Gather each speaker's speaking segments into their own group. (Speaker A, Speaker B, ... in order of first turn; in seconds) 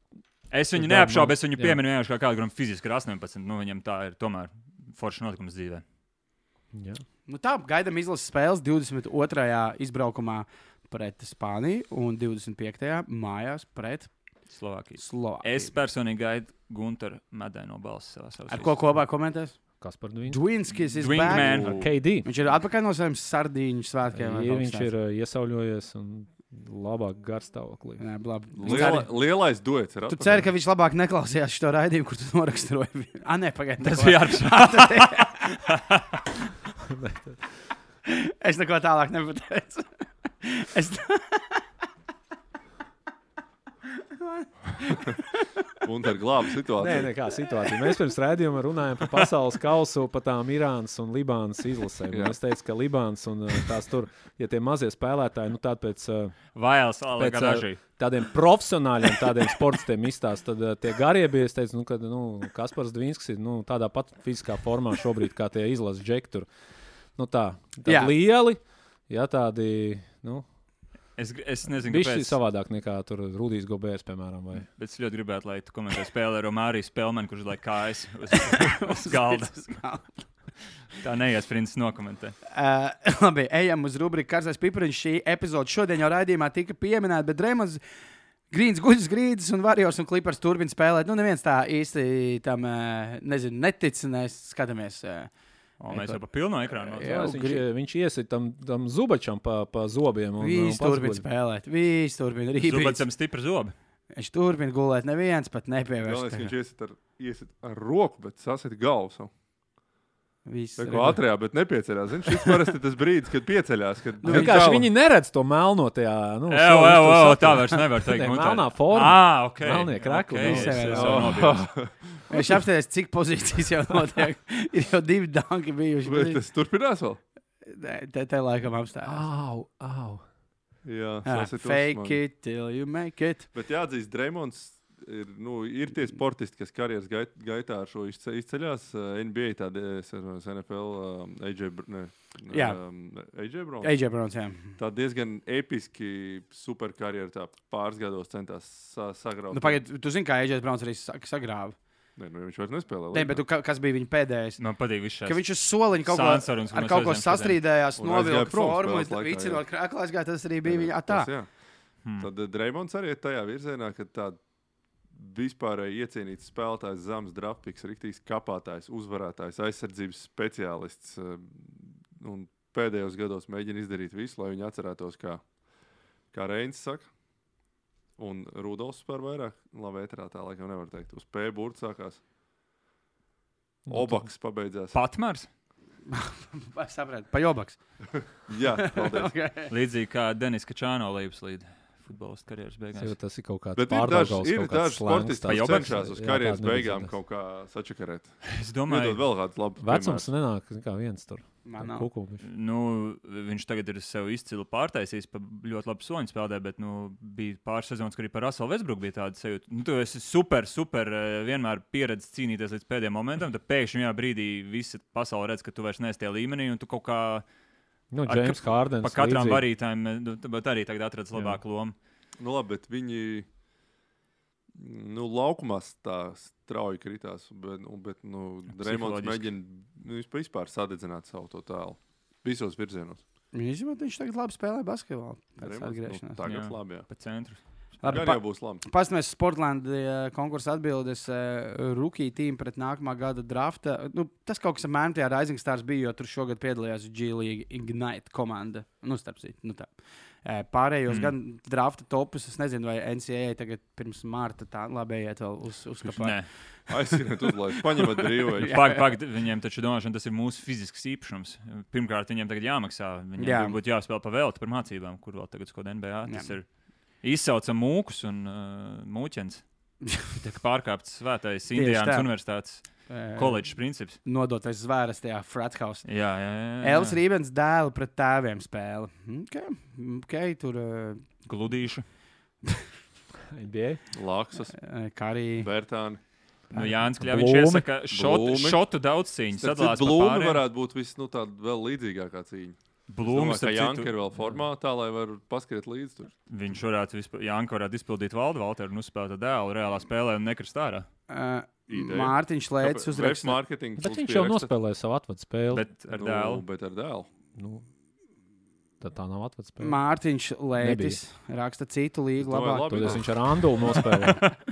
Speaker A: 0.5-5.8, 14.5-18.8, 21.0-21.9, 33.8-36.2, 56.5-57.8, 71.2-72.4, 74.7-79.8, 81.0-82.4, 95.8-97.3, 102.6-103.7, 116.5-121.8, 154.6-155.4, 156.1-157.6, 162.0-162.3, 184.9-185.5, 189.7-193.2, 195.5-196.0, 198.4-199.2, 202.4-217.4, 218.3-221.9, 228.7-229.5, 236.4-237.6, 256.1-256.5, 258.6-269.6, 270.3-274.2, 276.1-277.2, 281.4-282.0, 286.7-290.6, 293.1-294.1, 296.5-301.1, 305.7-306.6
Speaker B: 0.8-1.8, 6.7-7.0, 19.8-20.4, 21.6-22.3, 24.1-28.0, 36.9-37.4, 46.8-56.4, 57.2-66.5, 67.2-70.5, 71.8-74.7, 97.0-101.2, 114.2-121.3, 129.1-130.2, 183.9-184.3, 193.0-197.1, 199.8-202.4, 218.1-219.7, 283.5-284.0, 286.7-287.9, 304.0-305.9, 307.6-307.9, 309.0-310.0, 310.8-311.2, 312.9-314.5
Speaker C: 7.3-14.1, 15.0-15.7, 18.5-19.6, 20.3-24.9, 28.0-29.2, 30.1-35.6, 38.1-39.9, 40.4-41.6, 44.0-45.6, 67.8-68.2, 78.4-80.3, 82.5-87.8, 88.5-95.3, 96.8-97.7, 100.4-103.0, 104.1-106.5, 110.5-111.2, 114.2-114.7, 120.4-121.4, 122.3-126.4, 127.7-129.3, 131.2-133.5, 142.5-142.8, 143.8-144.8, 149.5-151.8, 153.1-154.6, 155.2-161.3, 186.1-187.8, 188.8-189.7, 201.7-202.1, 233.5-236.4, 238.0-259.1, 263.4-263.8, 266.3-266.5, 271.7-272.3, 273.1-276.1, 276.8-281.3, 284.7-285.7, 301.3-303.6, 309.8-313.4
Speaker D: 21.3-21.9, 28.6-30.5, 45.8-47.1, 52.1-52.4, 106.0-109.3, 110.8-114.9, 120.9-122.2, 126.0-127.2, 130.8-132.2, 133.5-144.0, 144.8-149.8, 152.2-153.4, 158.0-159.6, 160.6-161.5, 162.2-164.4, 165.1-175.4, 176.3-177.1, 178.2-182.2, 183.9-185.0, 188.2-189.3, 193.8-200.3, 222.4-223.5, 224.8-233.2, 235.6-237.1, 238.1-238.8, 256.9-258.8, 284.1-284.8, 285.6-286.2, 288.1-288.8, 289.5-296.3, 301.9-304.7, 306.1-307.3, 312.4-313.3